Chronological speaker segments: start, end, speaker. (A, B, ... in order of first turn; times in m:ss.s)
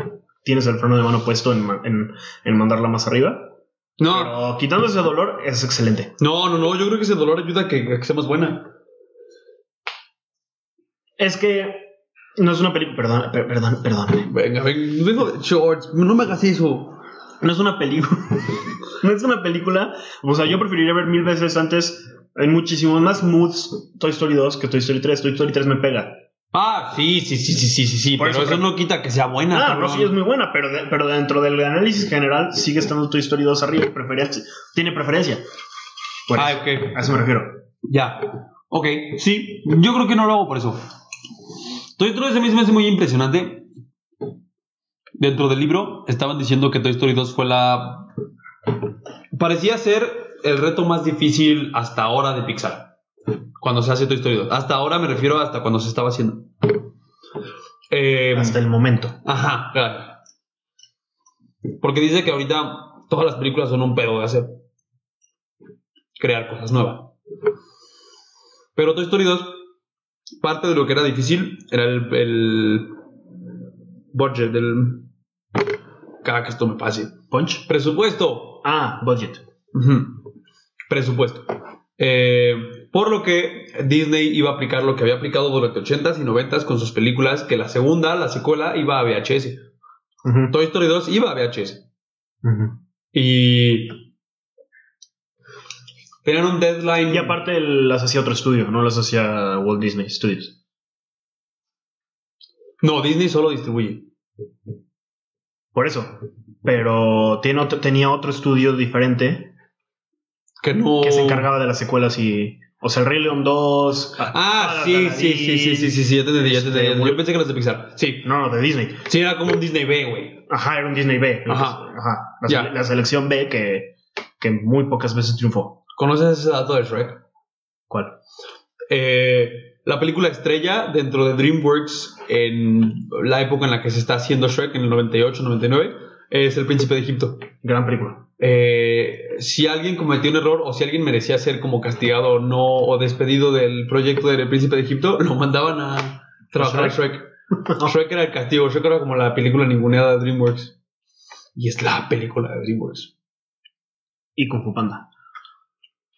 0:00.4-0:03.5 A
0:04.0-0:04.3 B
0:04.1-0:06.1 A
0:06.2-0:08.7 B
0:11.2-0:14.3 A
0:14.3-0:17.0 B
0:17.4-0:26.2 A
0:26.5-0:30.1 B
0:28.2-0:28.7 A
0:29.5-0:35.4 A
0:36.3-0:37.6 A
0:36.3-0:37.0 B
0:37.8-0:40.8 B
0:42.0-0:43.7 B
0:45.2-0:48.1 B
0:49.3-0:52.9 B
0:53.6-0:56.7 B
0:57.9-0:58.6 B
0:58.3-0:59.2 A
0:59.2-1:00.2 B
1:01.8-1:04.5 B
1:06.2-1:07.1 B
1:08.7-1:09.7 B
1:10.4-1:12.9 B
1:14.1-1:15.1 B
1:16.2-1:18.6 B
1:17.3-1:17.6 A
1:18.6-1:19.4 A
1:19.7-1:20.2 B
1:20.9-1:29.6 B
1:30.2-1:30.5 A
1:30.5-1:31.8 B
1:32.4-1:32.8 A
1:33.1-1:34.0 B
1:36.2-1:37.4 B
1:37.1-1:40.5 A
1:42.8-1:44.1 B
1:45.7-1:49.5 A
1:50.6-1:51.5 B
1:51.0-1:57.2 A
1:54.2-1:58.3 B
1:58.2-1:59.0 A
1:59.0-2:00.4 B
2:00.5-2:05.8 A
2:01.4-2:01.8 B
2:02.4-2:02.7 B
2:05.9-2:07.2 B
2:07.9-2:08.1 A
2:08.9-2:17.4 B
2:17.6-2:18.2 A
2:18.4-2:27.3 B
2:26.6-2:27.0 A
2:27.7-2:27.9 A
2:27.8-2:30.7 B
2:31.6-2:33.1 B
2:34.4-2:35.0 A